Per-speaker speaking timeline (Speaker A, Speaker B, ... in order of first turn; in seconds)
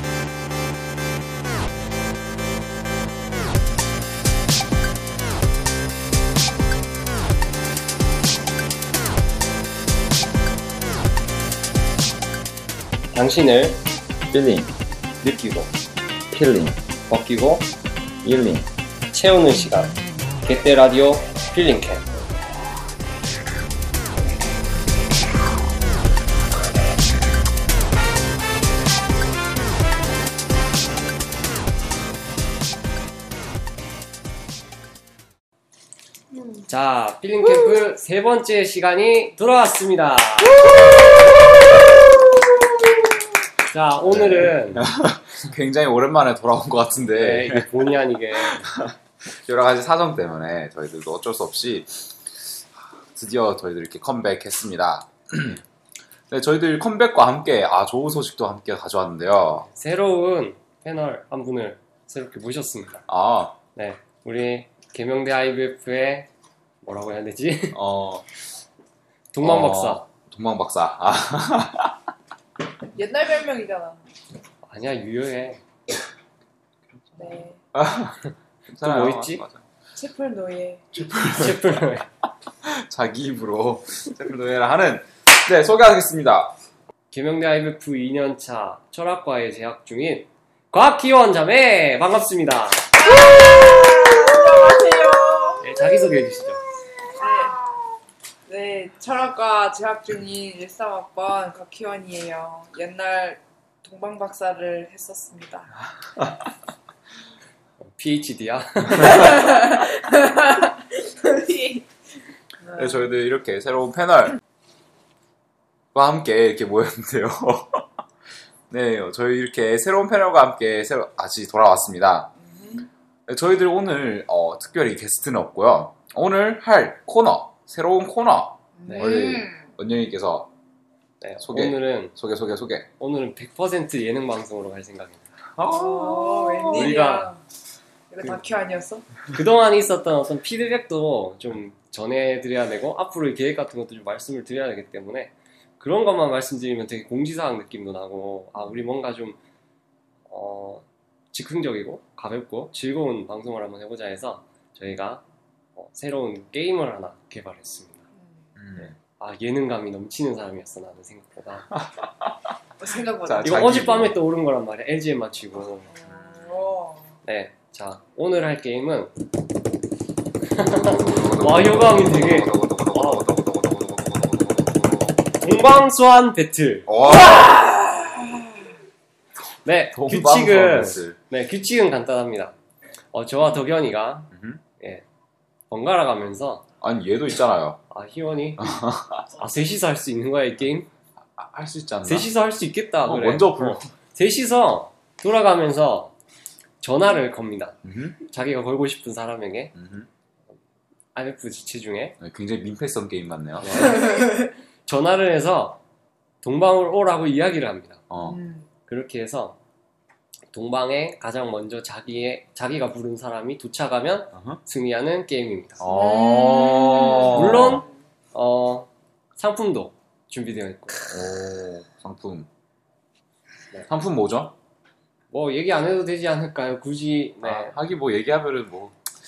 Speaker A: 13.1-13.8, 15.2-15.7, 17.1-17.7, 19.1-22.0, 36.7-40.6, 43.7-44.9, 47.2-48.7, 59.6-63.1, 63.8-66.3, 66.8-67.8, 69.3-70.1, 74.7-75.6, 78.8-79.4, 81.3-82.1, 87.1-93.0, 95.6-96.6, 107.8-109.4, 131.2-132.1, 133.0-135.2, 136.7-137.3, 139.3-149.4, 150.3-155.2, 155.8-158.0, 158.8-161.7, 163.4-165.9, 167.2-169.1, 170.5-173.2, 175.4-176.9, 179.7-182.6, 183.1-185.1, 185.7-186.6, 187.9-188.8, 189.4-190.9, 192.1-196.1, 196.8-199.7, 201.2-202.2, 203.6-204.2, 204.9-205.8, 206.4-208.0, 208.9-209.6, 210.5-215.8, 217.3-221.0, 225.3-227.8
Speaker B: 36.3-36.7, 73.0-74.0, 77.2-77.6, 80.0-80.8, 93.0-95.7, 97.2-97.6, 98.5-105.7, 109.0-111.8, 112.7-113.0, 122.5-122.9, 128.8-129.7, 135.7-137.4, 138.1-139.1, 162.8-163.7, 165.9-167.1, 177.1-178.5, 204.0-204.5, 208.2-208.7, 215.9-217.9
Speaker C: 44.0-47.9, 48.5-52.2, 53.1-55.6, 56.3-59.7, 63.1-63.6, 67.7-68.3, 69.4-72.0, 76.9-79.6, 80.9-81.8, 82.7-86.6, 112.8-114.4, 115.9-117.9, 118.7-122.3, 123.3-130.5, 131.4-132.9, 135.6-137.0, 158.6-159.0, 161.8-162.3, 163.2-164.2, 166.1-166.6, 170.7-175.2, 176.9-177.6, 179.9-181.2, 184.3-184.6, 186.8-187.8, 188.6-189.3, 191.4-192.3, 193.1-193.9, 197.8-198.2, 199.8-200.1, 202.2-203.9, 208.1-208.4, 214.3-214.6, 215.8-217.9, 221.1-222.5, 223.9-224.6, 227.4-229.0